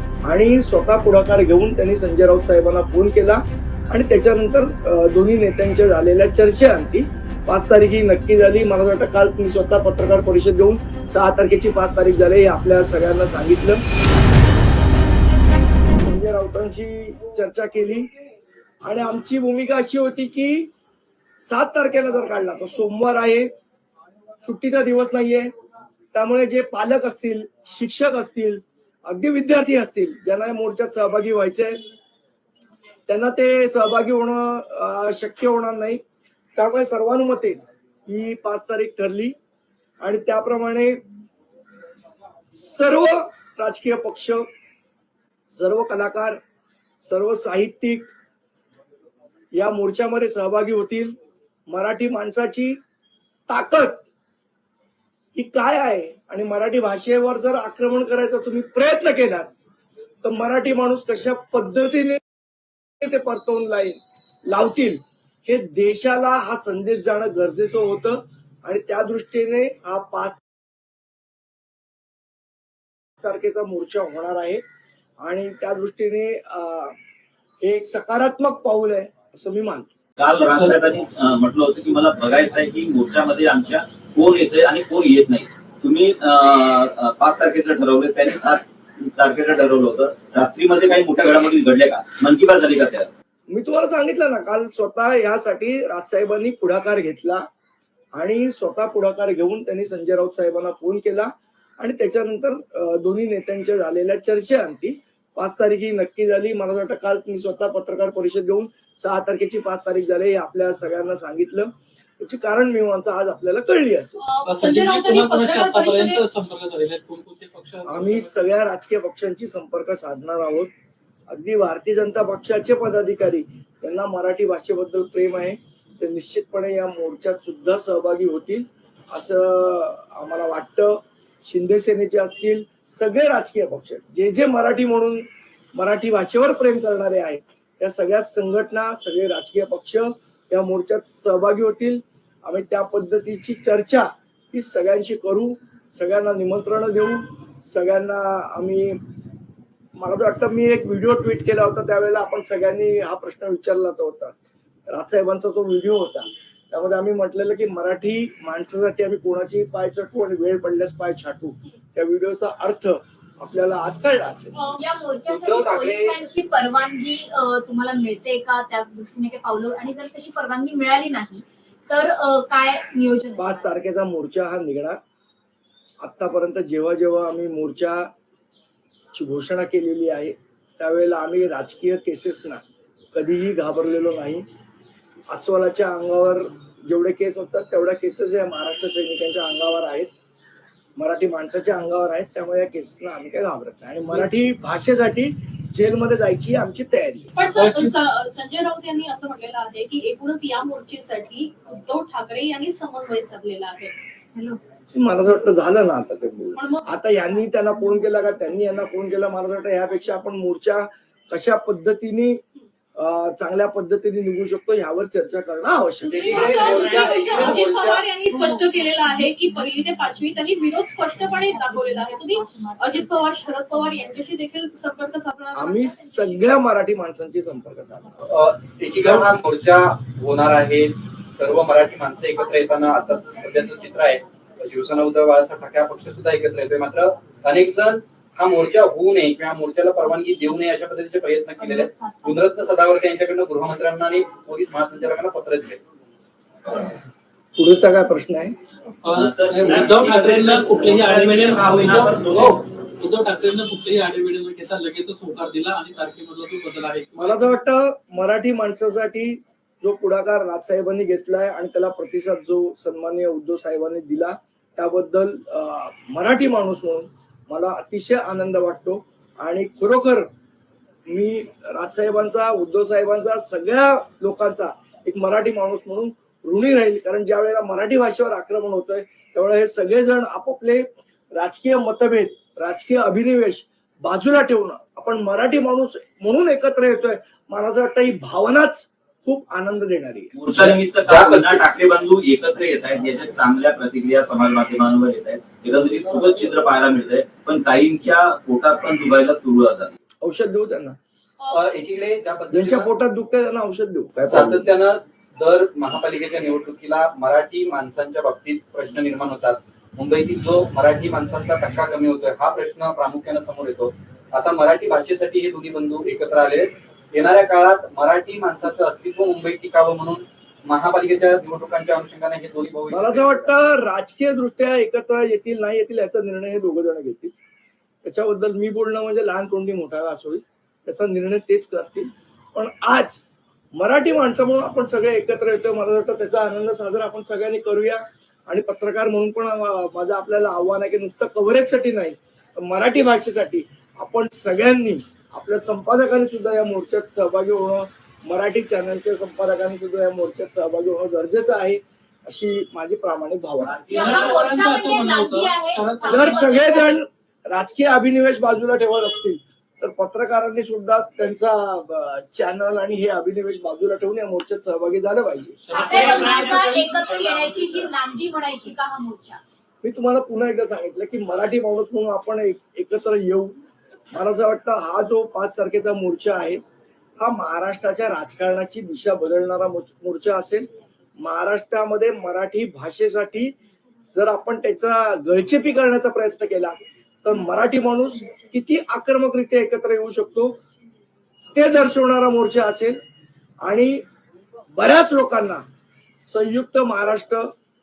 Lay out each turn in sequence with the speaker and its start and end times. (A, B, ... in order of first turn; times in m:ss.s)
0:00.2-0:13.8 A
0:16.0-0:18.1 A
0:18.8-0:20.7 A
0:21.4-0:23.5 A
0:24.4-0:25.5 A
0:26.1-0:31.8 A
0:33.1-0:36.0 A
0:36.6-0:39.3 A
0:40.0-0:41.0 A
0:42.5-0:44.4 A
0:45.5-0:46.4 A
0:47.0-0:48.1 A
0:49.5-0:51.2 A
0:51.7-0:52.8 A
0:53.5-0:54.1 A
0:55.3-0:59.5 A
1:00.2-1:02.2 A
1:03.0-1:10.4 A
1:13.2-1:14.6 A
1:15.2-1:17.0 A
1:17.6-1:19.9 A
1:20.2-1:33.1 B
1:20.5-1:20.8 C
1:33.5-1:37.4 A
1:38.2-1:54.2 A
1:54.2-1:56.2 D
1:54.4-1:58.5 C
1:57.8-2:00.7 A
2:01.3-2:29.0 A
2:30.0-2:34.4 A
2:34.9-2:44.6 A
2:44.5-2:44.9 D
2:44.8-2:53.7 E
2:45.3-2:46.2 F
2:53.4-2:55.0 A
2:56.0-2:58.1 A
2:59.1-3:02.6 A
3:03.1-3:04.4 A
3:05.3-3:10.1 A
3:11.0-3:17.3 A
3:17.4-3:23.9 D
3:17.4-3:18.0 C
3:24.9-3:32.4 A
3:26.5-3:26.9 D
3:33.0-3:36.8 A
3:36.0-3:46.4 D
3:36.1-3:38.0 F
3:38.3-3:40.4 E
3:41.1-3:43.4 E
3:45.5-3:48.3 A
3:48.3-4:05.8 F
4:01.6-4:02.4 E
4:07.6-4:08.5 A
4:09.0-4:17.4 C
4:09.1-4:12.6 B
4:17.2-4:30.3 A
4:31.1-4:50.3 A
4:50.3-5:00.0 B
4:50.5-4:51.7 F
5:00.2-5:01.0 A
5:01.4-5:02.0 D
5:01.5-5:02.9 F
5:02.5-5:04.6 A
5:04.3-5:23.5 F
5:22.9-5:27.3 A
5:28.0-5:33.2 A
5:33.8-5:53.8 A
5:53.6-5:54.5 B
5:53.9-5:56.2 C
5:53.9-5:56.9 E
5:56.1-6:05.6 A
6:05.7-6:07.4 C
6:05.7-6:09.4 E
6:09.8-6:13.6 A
6:14.1-6:16.6 A
6:17.2-6:20.7 A
6:21.2-6:23.5 A
6:24.1-6:30.6 A
6:31.5-6:33.0 A
6:33.6-6:34.0 A
6:34.7-6:35.6 A
6:36.2-6:37.5 A